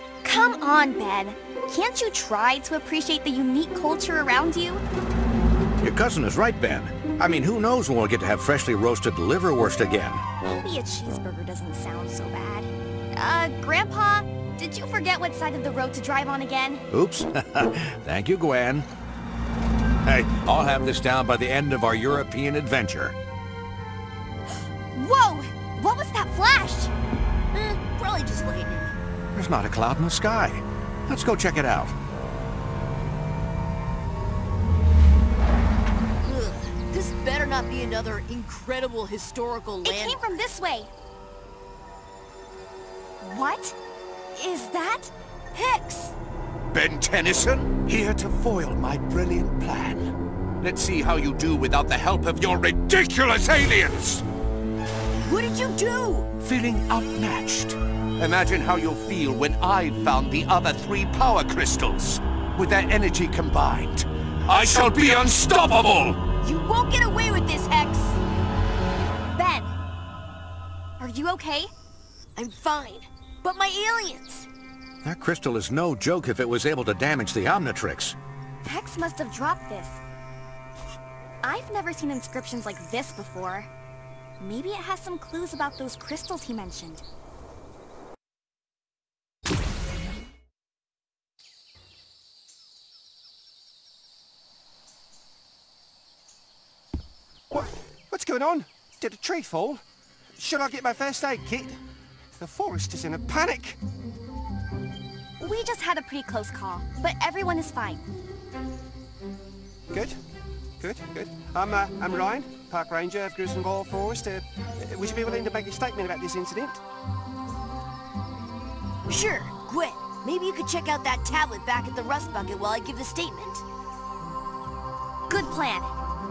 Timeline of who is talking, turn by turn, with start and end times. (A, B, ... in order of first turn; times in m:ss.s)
0:00.2-0:04.8 A
0:05.8-0:10.2 B
0:10.6-0:16.8 A
0:16.9-0:18.8 B
0:20.0-0:23.1 B
0:24.9-0:26.9 A
0:27.5-0:29.0 C
0:29.3-0:31.9 B
0:36.2-0:40.2 C
0:39.8-0:40.9 A
0:43.2-0:43.7 A
0:44.3-0:46.1 A
0:46.7-0:54.2 D
0:55.2-0:56.3 C
0:56.4-1:06.2 D
1:04.6-1:05.2 B
1:06.4-1:08.2 C
1:09.3-1:09.7 A
1:11.0-1:11.7 A
1:12.4-1:14.5 C
1:15.0-1:18.2 B
1:18.6-1:20.0 A
1:21.4-1:23.7 A
1:24.4-1:27.0 A
1:37.5-1:39.8 E
1:40.4-1:41.8 E
1:42.4-1:43.8 E
1:45.4-1:48.0 A
1:49.9-1:50.2 E
1:50.8-1:56.8 E
1:59.1-2:03.6 C
2:05.3-2:05.9 A